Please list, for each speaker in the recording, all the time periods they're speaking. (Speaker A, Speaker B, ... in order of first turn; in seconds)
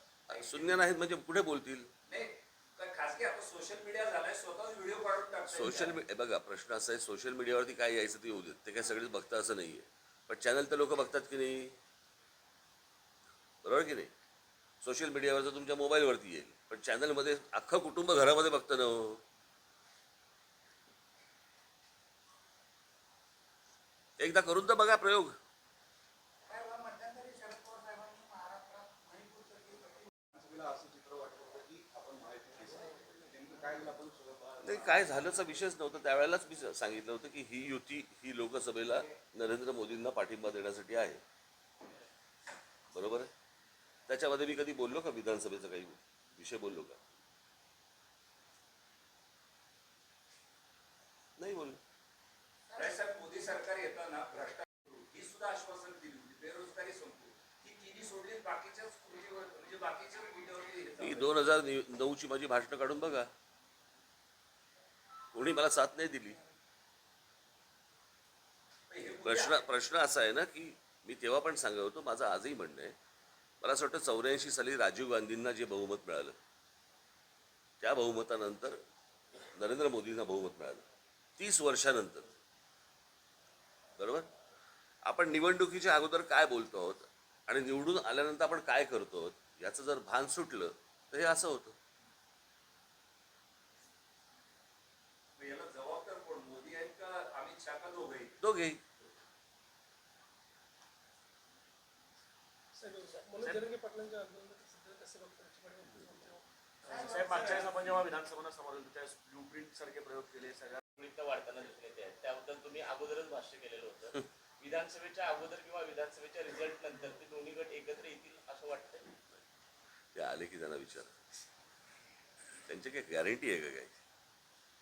Speaker A: 0.3-1.9, 5.5-11.8, 13.6-14.1, 14.8-19.2, 24.2-25.4, 34.6-41.2, 42.9-43.3, 44.1-47.0, 51.4-51.8, 61.0-63.3, 65.3-66.4, 69.2-73.0, 73.6-76.3, 77.8-78.8, 79.5-80.8, 81.4-82.3, 84.0-84.3, 85.0-91.8, 98.4-98.8, 120.1-121.1, 122.7-124.0
Speaker B: 0.3-0.7, 2.1-6.0, 52.7-61.4, 68.9-69.6, 95.4-98.4
Speaker C: 26.4-30.1, 52.7-53.1, 102.8-107.7
Speaker D: 30.2-35.1
Speaker E: 106.8-110.8
Speaker F: 111.0-119.1